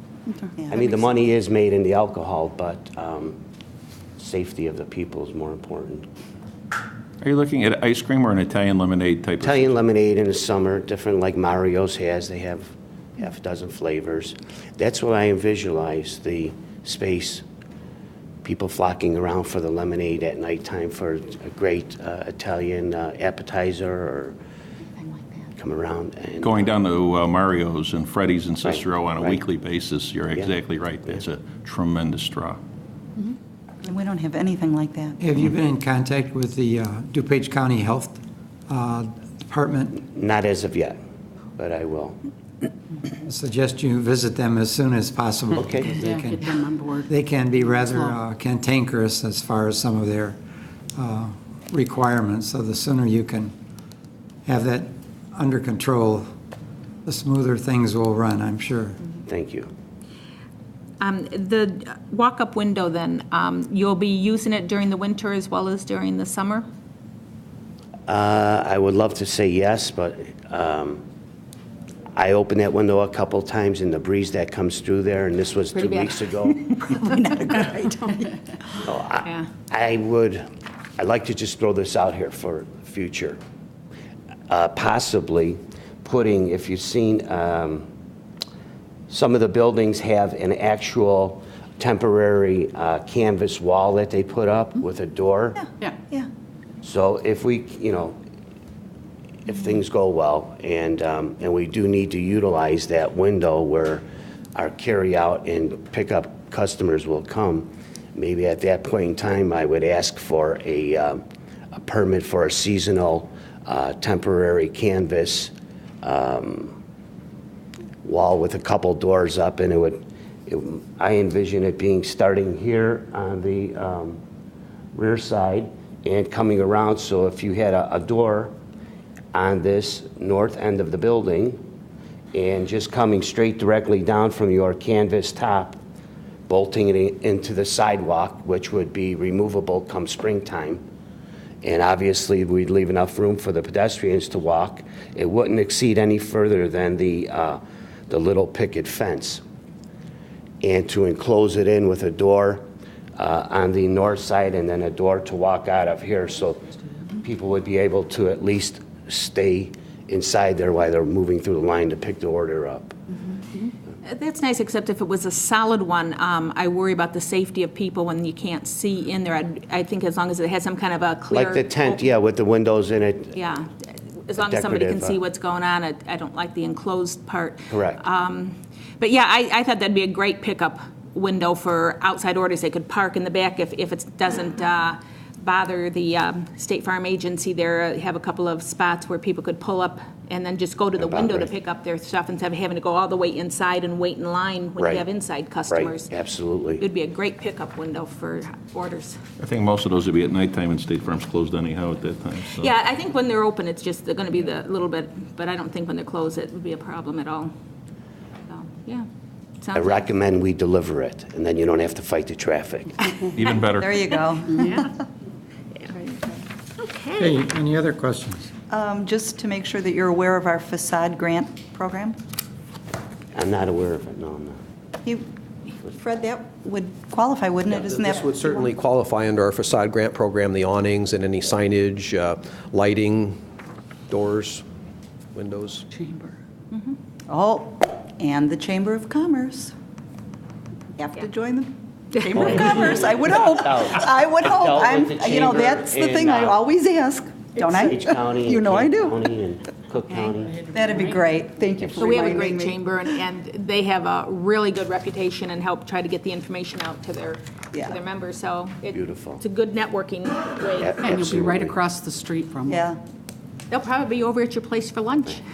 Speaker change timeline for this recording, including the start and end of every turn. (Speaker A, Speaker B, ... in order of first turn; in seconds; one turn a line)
Speaker A: 0.3-1.0
Speaker B: 0.7-3.4
Speaker B: 4.2-6.1
Speaker C: 7.2-9.8
Speaker B: 9.4-17.4
Speaker B: 18.4-24.4
Speaker B: 25.6-26.7
Speaker C: 26.4-32.6
Speaker B: 28.6-29.4
Speaker A: 33.8-35.2
Speaker D: 35.2-40.0
Speaker B: 40.0-41.0
Speaker B: 41.6-42.2
Speaker D: 43.2-46.4
Speaker B: 45.6-46.4
Speaker E: 46.0-47.1
Speaker D: 47.0-50.4
Speaker E: 47.7-48.2
Speaker D: 51.0-53.5
Speaker D: 54.5-56.3
Speaker D: 57.0-59.0
Speaker B: 59.3-59.7
Speaker F: 61.0-66.7
Speaker B: 68.1-71.0
Speaker B: 72.2-76.6
Speaker F: 75.7-77.0
Speaker A: 76.9-78.2
Speaker B: 78.8-80.5
Speaker B: 81.0-83.4
Speaker B: 84.5-87.9
Speaker B: 89.1-95.6
Speaker A: 95.6-96.3
Speaker B: 96.8-98.2
Speaker B: 99.5-104.0
Speaker B: 104.5-111.2
Speaker B: 111.7-116.7
Speaker B: 118.0-124.2
Speaker B: 125.0-128.5
Speaker B: 129.3-131.6
Speaker B: 132.3-135.8
Speaker B: 136.5-140.8
Speaker B: 141.6-149.4
Speaker B: 150.6-152.6
Speaker B: 153.2-156.7
Speaker B: 157.2-163.0
Speaker F: 164.0-172.1
Speaker B: 171.3-173.3
Speaker F: 173.3-173.7
Speaker F: 174.3-196.1
Speaker B: 174.4-175.2
Speaker B: 177.7-178.0
Speaker B: 191.0-191.5
Speaker B: 194.8-195.1
Speaker B: 195.7-196.8
Speaker F: 196.8-199.2
Speaker C: 199.4-202.7
Speaker F: 202.6-207.5
Speaker F: 208.5-209.1
Speaker F: 209.6-210.0
Speaker B: 209.7-213.1
Speaker C: 213.3-213.9
Speaker A: 213.8-214.9
Speaker F: 215.8-217.4
Speaker D: 217.2-218.5
Speaker A: 218.7-222.2
Speaker B: 223.3-224.6
Speaker A: 225.8-228.7
Speaker G: 227.7-233.4
Speaker G: 234.1-234.7
Speaker G: 235.3-235.9
Speaker A: 237.3-239.7
Speaker A: 241.0-249.3
Speaker B: 242.4-246.6
Speaker B: 247.6-250.7
Speaker A: 250.7-252.8
Speaker B: 251.8-252.4
Speaker F: 252.0-261.1
Speaker B: 258.9-259.4
Speaker B: 260.6-261.8
Speaker E: 261.0-262.9
Speaker A: 262.7-263.0
Speaker F: 263.7-265.4